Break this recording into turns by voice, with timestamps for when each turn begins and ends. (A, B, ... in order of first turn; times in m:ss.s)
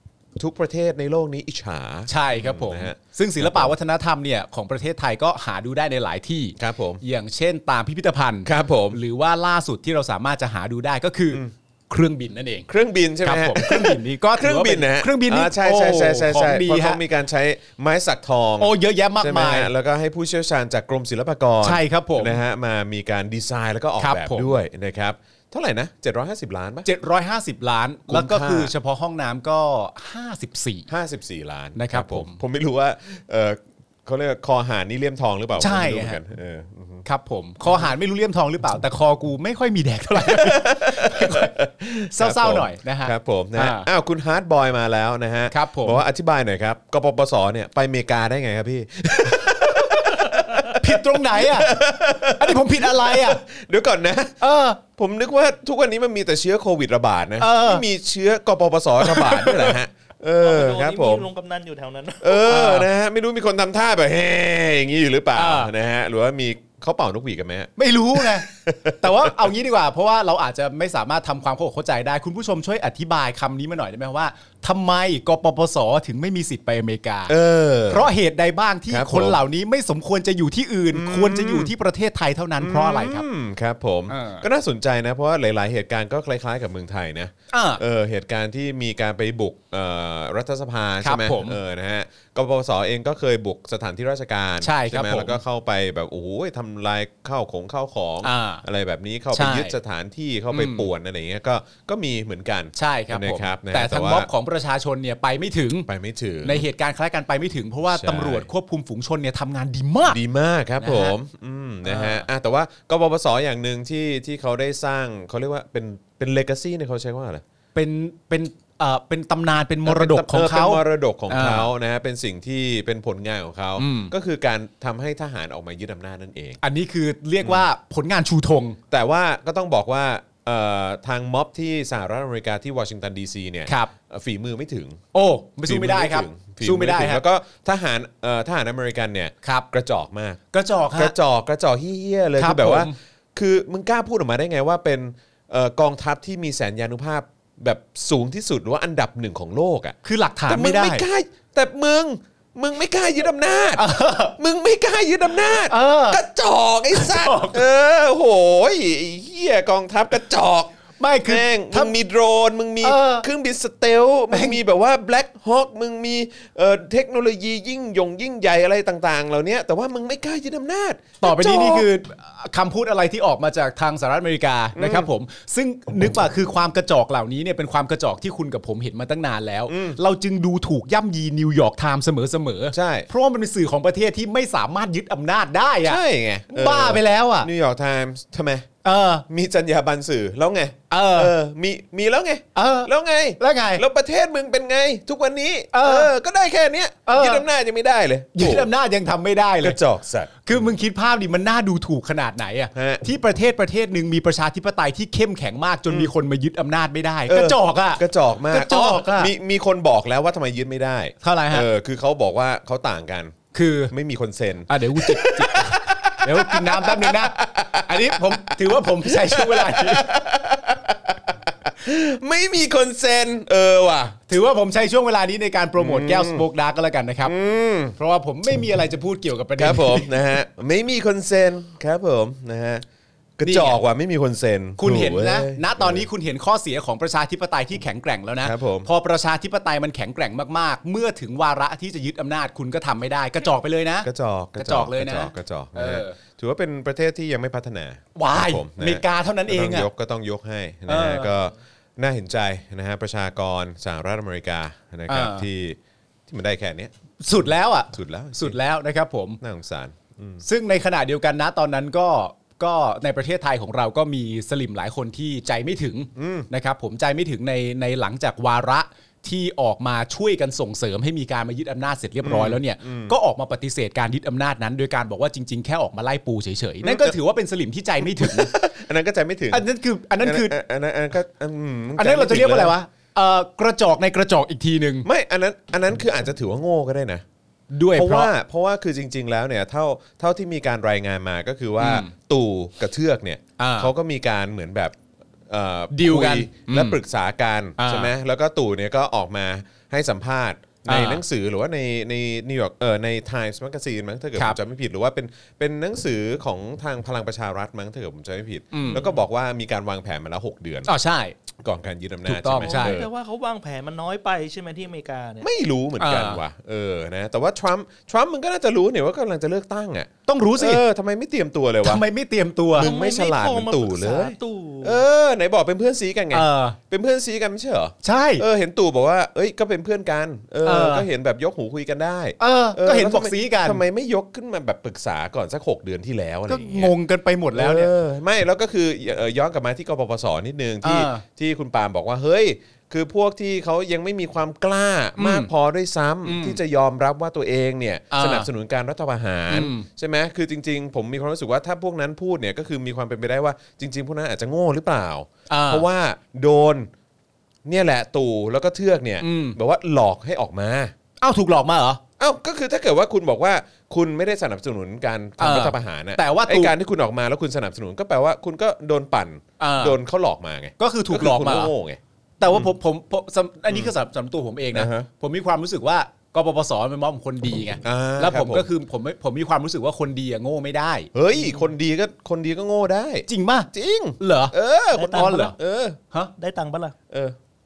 0:00.4-0:03.7 A
0:02.1-0:12.7 B
0:06.6-0:07.0 A
0:08.5-0:09.0 A
0:12.7-0:26.9 A
0:13.2-0:17.0 B
0:18.6-0:19.7 B
0:21.6-0:22.4 B
0:24.0-0:24.6 B
0:26.8-0:30.9 B
0:28.1-0:28.7 A
0:30.9-0:37.1 A
0:31.8-0:32.4 B
0:35.6-0:36.2 B
0:37.0-0:41.5 B
0:40.1-1:01.3 A
0:42.1-0:43.9 B
0:45.5-0:46.0 B
0:49.6-0:53.4 B
0:54.4-0:54.8 B
0:57.4-0:57.8 B
0:59.0-0:59.8 B
1:00.4-1:02.5 C
1:02.2-1:09.5 A
1:02.5-1:02.9 B
1:05.4-1:05.7 B
1:07.8-1:17.3 B
1:17.3-1:18.1 A
1:17.9-1:23.2 B
1:18.9-1:19.4 A
1:20.9-1:21.7 A
1:22.6-1:44.3 A
1:24.1-1:24.5 B
1:27.5-1:27.8 B
1:31.0-1:31.6 B
1:34.6-1:35.4 B
1:38.2-1:38.6 B
1:39.3-1:39.8 B
1:40.5-1:40.9 B
1:42.8-1:45.9 B
1:45.9-1:46.7 A
1:46.4-1:50.2 B
1:47.8-1:48.5 A
1:50.1-1:57.4 A
1:50.8-1:51.2 B
1:51.8-1:52.3 B
1:57.8-2:01.7 B
1:59.9-2:06.6 A
2:03.8-2:04.1 B
2:06.6-2:08.8 B
2:08.9-2:15.0 A
2:13.7-2:13.9 B
2:15.1-2:17.2 B
2:15.6-2:20.4 A
2:19.4-2:19.7 B
2:20.5-2:21.1 B
2:20.9-2:30.0 A
2:22.4-2:22.9 B
2:30.0-2:31.0 B
2:30.5-2:51.9 A
2:33.8-2:34.4 B
2:35.7-2:36.2 B
2:36.9-2:37.6 B
2:41.0-2:41.9 B
2:42.8-2:43.3 B
2:44.3-2:44.6 B
2:51.2-3:06.0 B
2:54.8-2:55.1 A
2:59.7-3:00.0 A
3:02.7-3:03.1 A
3:05.8-3:08.7 A
3:06.5-3:07.5 B
3:08.8-3:09.2 B
3:09.3-3:18.7 A
3:10.9-3:11.3 B
3:12.6-3:13.8 B
3:15.7-3:16.1 B
3:17.1-3:17.5 B
3:18.4-3:19.8 B
3:19.6-3:20.7 A
3:20.4-3:29.3 B
3:22.8-3:23.0 A
3:27.3-3:44.2 A
3:31.2-3:31.7 B
3:33.5-3:33.9 B
3:34.7-3:40.1 B
3:44.3-3:47.4 B
3:45.8-3:46.5 A
3:47.2-3:48.0 A
3:48.0-3:50.2 B
3:49.6-3:52.8 A
3:53.4-3:56.1 A
3:53.4-3:53.8 B
3:54.8-4:06.2 B
3:58.4-3:58.9 A
4:04.0-4:18.6 A
4:08.2-4:09.9 B
4:10.9-4:11.3 B
4:15.1-4:15.5 B
4:17.2-4:19.4 B
4:19.4-4:20.4 A
4:20.4-4:38.6 B
4:26.2-4:26.5 A
4:32.2-4:33.2 A
4:36.8-4:37.2 A
4:38.0-4:39.7 A
4:39.5-4:40.6 B
4:40.2-4:42.8 A
4:42.0-4:45.1 B
4:45.0-4:47.2 A
4:47.7-4:48.3 B
4:47.9-4:55.0 A
4:51.8-4:52.1 B
4:53.6-4:53.9 B
4:55.5-5:10.9 A
4:55.9-4:57.0 B
4:57.8-4:58.1 B
5:00.9-5:01.2 B
5:08.7-5:09.0 B
5:08.9-5:09.2 C
5:10.9-5:11.4 B
5:11.6-5:13.1 A
5:12.3-5:13.0 B
5:12.6-5:15.5 C
5:15.4-5:22.0 A
5:16.0-5:16.4 B
5:20.3-5:20.8 B
5:21.8-5:22.9 B
5:22.7-5:36.9 A
5:22.8-5:25.0 C
5:26.3-5:26.8 B
5:28.0-5:28.4 B
5:30.6-5:31.1 B
5:32.4-5:33.8 B
5:36.5-5:37.9 B
5:37.5-5:56.9 A
5:40.8-5:41.2 B
5:45.2-5:45.5 B
5:46.2-5:46.6 B
5:48.1-5:48.5 B
5:49.5-5:49.9 B
5:55.5-5:55.9 B
5:57.7-6:00.9 A
5:59.2-5:59.6 B
6:01.2-6:02.0 B
6:02.2-6:12.7 A
6:05.4-6:06.7 B
6:09.6-6:10.0 B
6:10.8-6:11.7 B
6:12.4-6:21.1 B
6:14.7-6:15.1 A
6:17.8-6:18.7 A
6:21.1-6:26.0 A
6:23.3-6:24.6 B
6:24.9-6:25.5 C
6:25.1-6:25.6 B
6:26.4-6:26.9 C
6:27.1-6:27.4 A